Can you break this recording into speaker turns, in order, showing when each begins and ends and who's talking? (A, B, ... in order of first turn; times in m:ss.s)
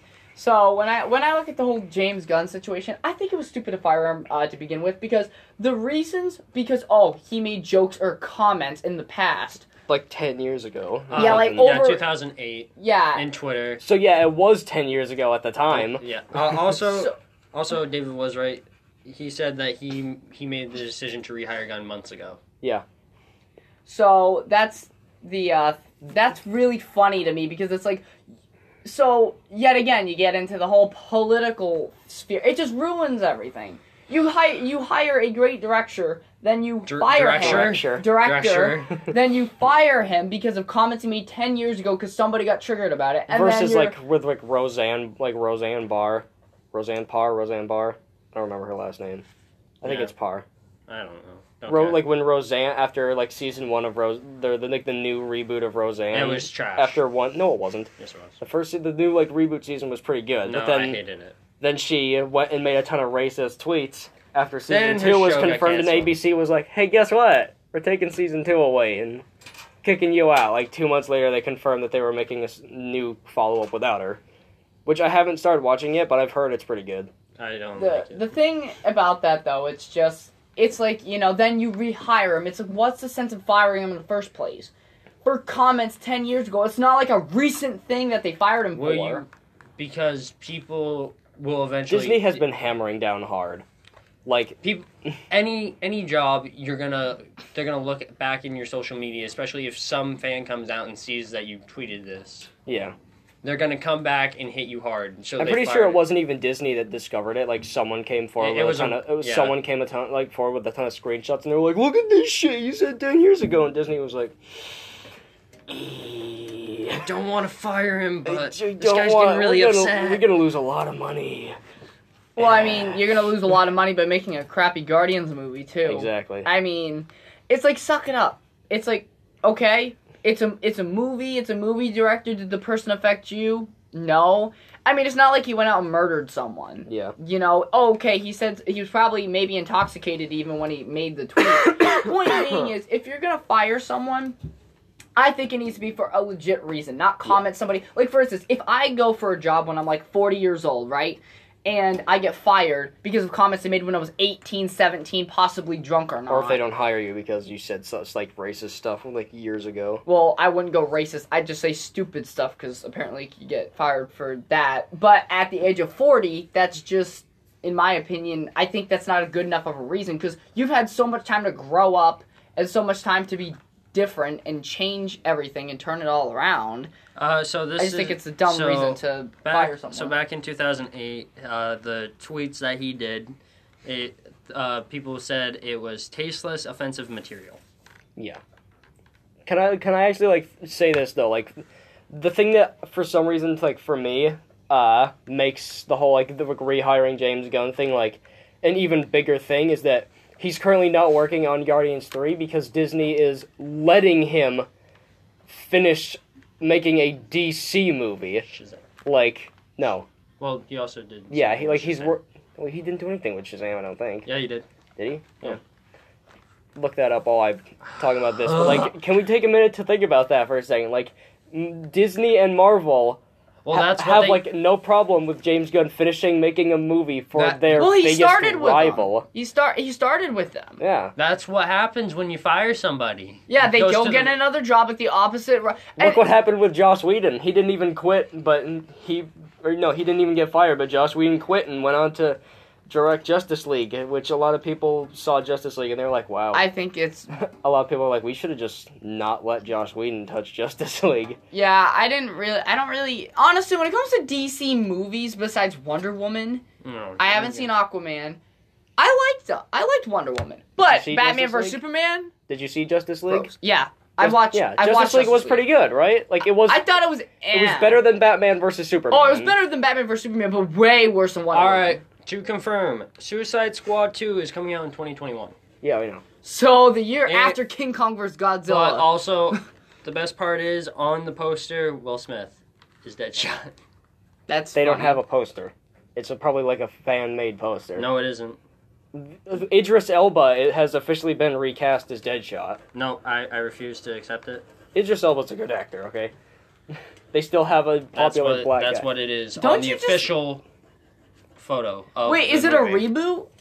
0:00.3-0:09.7 A
0:09.9-0:11.7 B
0:11.1-0:13.8 C
0:11.1-0:12.1 A
0:12.8-0:13.2 A
0:13.8-0:16.0 B
0:15.7-0:22.4 C
0:16.8-0:17.1 A
0:23.8-0:28.0 A
0:28.8-0:44.0 A
0:36.9-0:39.0 C
0:37.4-0:38.1 B
0:43.3-0:49.2 B
0:49.8-0:50.4 B
0:49.8-0:50.1 C
0:50.9-0:52.1 C
0:51.7-1:01.0 B
0:56.1-0:57.0 C
0:58.0-0:58.4 C
1:00.4-1:01.4 C
1:01.6-1:09.2 B
1:04.7-1:06.1 C
1:09.8-1:14.2 B
1:14.8-1:17.1 B
1:17.4-1:18.3 C
1:17.8-1:24.7 A
1:25.2-1:29.2 A
1:28.7-1:32.4 C
1:31.9-1:33.6 B
1:34.2-1:34.6 B
1:34.6-1:42.5 C
1:42.7-1:42.9 B
1:43.4-1:46.0 C
1:45.4-1:54.4 B
1:48.4-1:49.5 C
1:55.7-1:57.0 B
1:57.0-2:00.3 C
1:58.2-2:01.6 B
2:02.4-2:24.4 A
2:05.8-2:06.5 B
2:16.8-2:17.1 B
2:25.2-2:36.6 A
2:36.3-2:40.0 B
2:40.0-2:56.9 A
2:57.2-3:03.3 C
2:57.8-3:00.1 A
3:03.8-3:07.6 C
3:08.2-3:08.4 B
3:09.4-3:24.7 B
3:25.5-3:28.5 B
3:28.5-3:28.8 C
3:29.0-3:30.1 B
3:30.4-3:32.2 C
3:31.3-3:34.3 B
3:34.2-3:34.6 C
3:35.0-3:35.6 B
3:36.7-3:43.2 B
3:38.0-3:38.9 C
3:43.6-3:44.4 C
3:43.7-3:49.2 B
3:47.3-3:48.0 C
3:47.8-3:50.8 A
3:50.8-3:51.1 B
3:51.2-3:54.4 C
3:53.5-3:56.2 A
3:56.0-4:06.6 B
4:06.5-4:07.3 A
4:07.3-4:11.4 B
4:11.5-4:16.6 A
4:16.8-4:17.7 C
4:17.2-4:18.4 A
4:19.0-4:22.3 A
4:20.8-4:21.8 B
4:22.5-4:23.5 B
4:23.3-4:25.7 A
4:24.2-4:26.8 B
4:26.7-4:28.1 A
4:27.5-4:29.5 B
4:29.1-4:32.0 A
4:31.5-4:35.6 C
4:35.8-4:36.2 B
4:36.4-4:39.1 A
4:37.2-4:37.6 C
4:38.7-4:43.7 C
4:44.5-4:45.2 A
4:44.7-4:48.1 B
4:48.0-4:48.6 C
4:49.1-4:52.8 B
4:52.9-4:54.6 C
4:54.9-4:56.3 B
4:56.9-4:59.1 B
4:58.1-5:00.6 C
4:59.6-5:00.3 A
5:01.6-5:03.1 C
5:02.2-5:03.5 A